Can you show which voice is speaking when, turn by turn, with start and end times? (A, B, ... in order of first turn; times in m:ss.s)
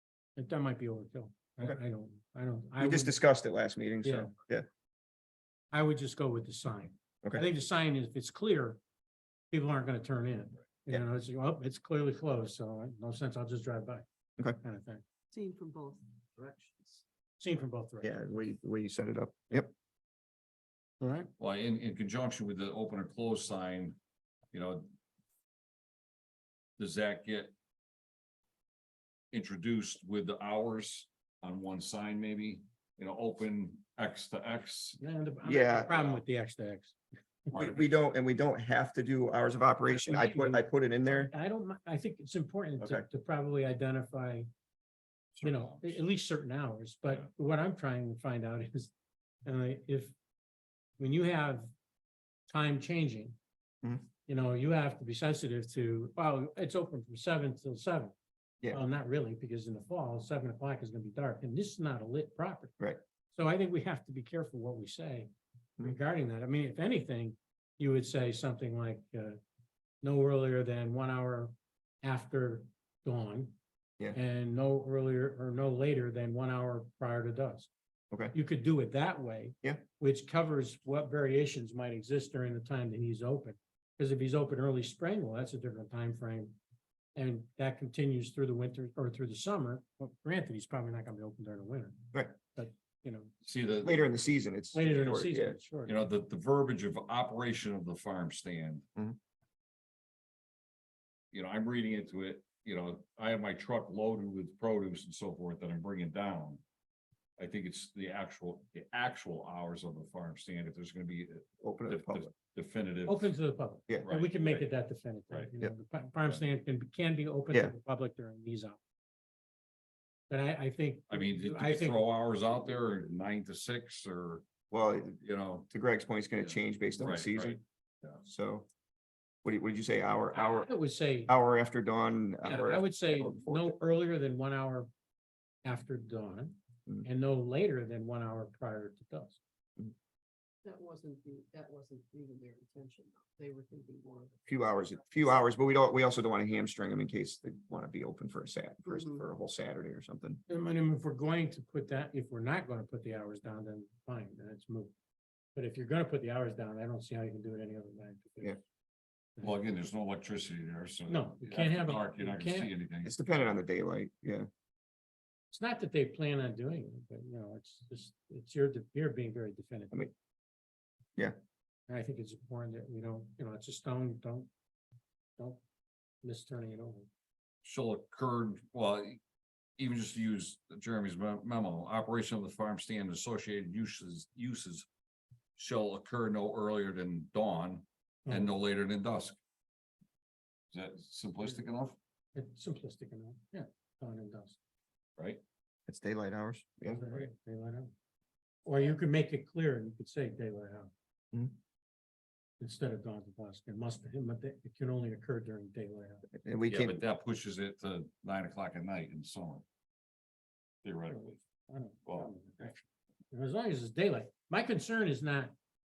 0:00.4-0:03.2 A
0:02.8-0:04.7 B
0:04.0-0:04.3 A
0:05.7-0:08.8 A
0:09.5-0:14.0 A
0:14.6-0:15.0 A
0:15.3-0:17.0 C
0:17.4-0:18.2 A
0:18.0-0:19.7 B
0:21.0-0:21.3 A
0:21.4-0:24.0 D
0:24.5-0:24.9 D
0:26.8-0:27.5 D
0:29.3-0:35.0 D
0:35.0-0:37.0 A
0:35.4-0:36.2 B
0:37.5-0:37.8 D
0:37.6-0:41.3 B
0:40.0-0:44.5 A
0:42.8-0:43.1 B
0:45.4-0:46.0 D
0:45.4-0:48.9 A
0:49.4-0:50.2 A
0:51.0-0:51.7 A
0:52.5-0:53.4 A
0:54.2-0:58.1 A
0:58.7-1:02.7 A
1:03.3-1:05.3 A
1:05.8-1:09.4 A
1:10.0-1:11.5 A
1:12.0-1:13.6 A
1:14.1-1:17.7 A
1:18.3-1:26.6 A
1:27.2-1:33.3 A
1:33.4-1:34.0 D
1:33.8-1:35.6 B
1:34.7-1:36.0 A
1:35.9-1:38.8 D
1:41.3-1:46.6 D
1:47.4-1:53.4 D
1:51.6-1:52.3 B
1:53.1-1:58.8 A
1:54.0-1:54.7 D
2:00.3-2:02.1 A
2:01.1-2:04.5 D
2:04.7-2:05.2 B
2:05.1-2:05.7 D
2:05.7-2:07.6 B
2:06.4-2:08.2 D
2:08.2-2:08.7 B
2:09.4-2:10.7 B
2:10.3-2:11.3 A
2:11.3-2:13.8 B
2:12.4-2:14.9 A
2:15.6-2:19.4 A
2:20.6-2:24.4 C
2:24.5-2:30.4 B
2:28.9-2:29.2 C
2:30.5-2:34.9 A
2:35.6-2:38.6 A
2:39.4-2:43.6 D
2:41.1-2:42.7 A
2:43.0-2:44.5 B
2:45.5-2:50.1 A
2:51.9-2:54.5 A
2:55.4-2:55.6 A
2:56.2-2:57.1 A
2:57.6-2:59.2 D
2:59.8-3:04.9 D
3:05.6-3:09.4 D
3:08.3-3:08.5 A
3:10.7-3:12.0 D
3:12.4-3:14.6 A
3:15.9-3:17.0 B
3:16.9-3:17.9 A
3:18.6-3:20.9 A
3:22.6-3:26.2 A
3:26.3-3:27.0 B
3:26.7-3:29.6 D
3:30.8-3:31.4 D
3:31.7-3:32.8 A
3:32.0-3:32.7 D
3:33.3-3:35.5 A